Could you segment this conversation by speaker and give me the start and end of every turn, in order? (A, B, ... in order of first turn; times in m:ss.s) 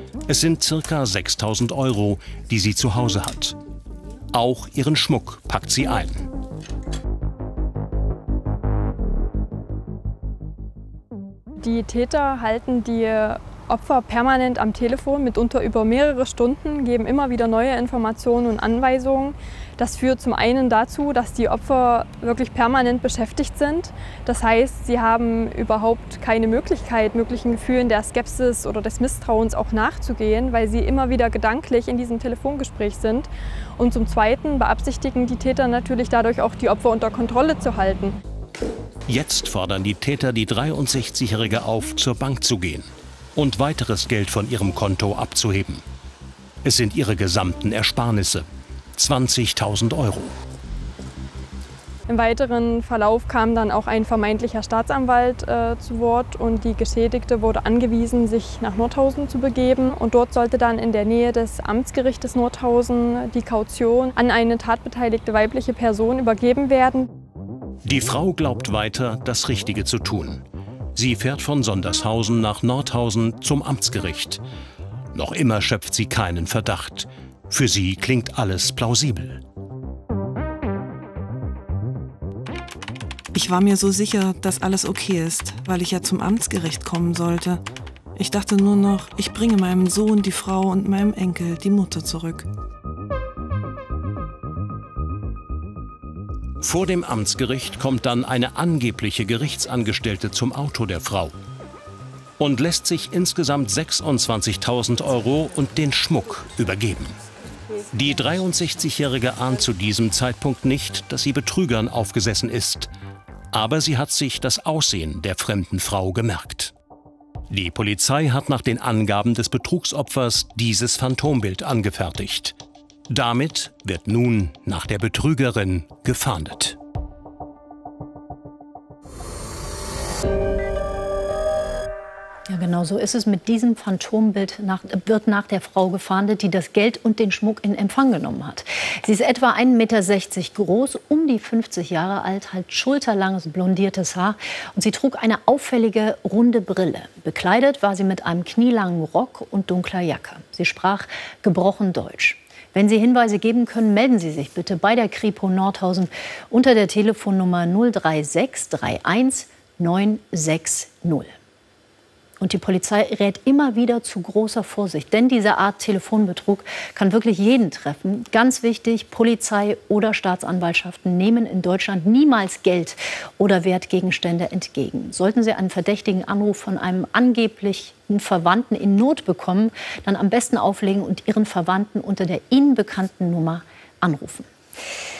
0:00.3-0:03.6 A
0:04.3-0:06.3 A
0:11.6-0:38.2 B
0:39.1-0:45.8 A
0:46.6-0:50.4 A
0:52.1-1:07.1 B
1:07.8-1:14.4 A
1:15.1-1:19.4 A
1:23.3-1:27.6 C
1:28.2-1:32.5 C
1:36.6-1:41.4 A
1:42.4-1:47.2 A
1:47.9-1:52.9 A
1:53.5-1:56.7 A
1:57.5-2:02.6 A
2:03.1-2:06.8 A
2:12.5-2:41.3 D
2:42.4-3:04.5 D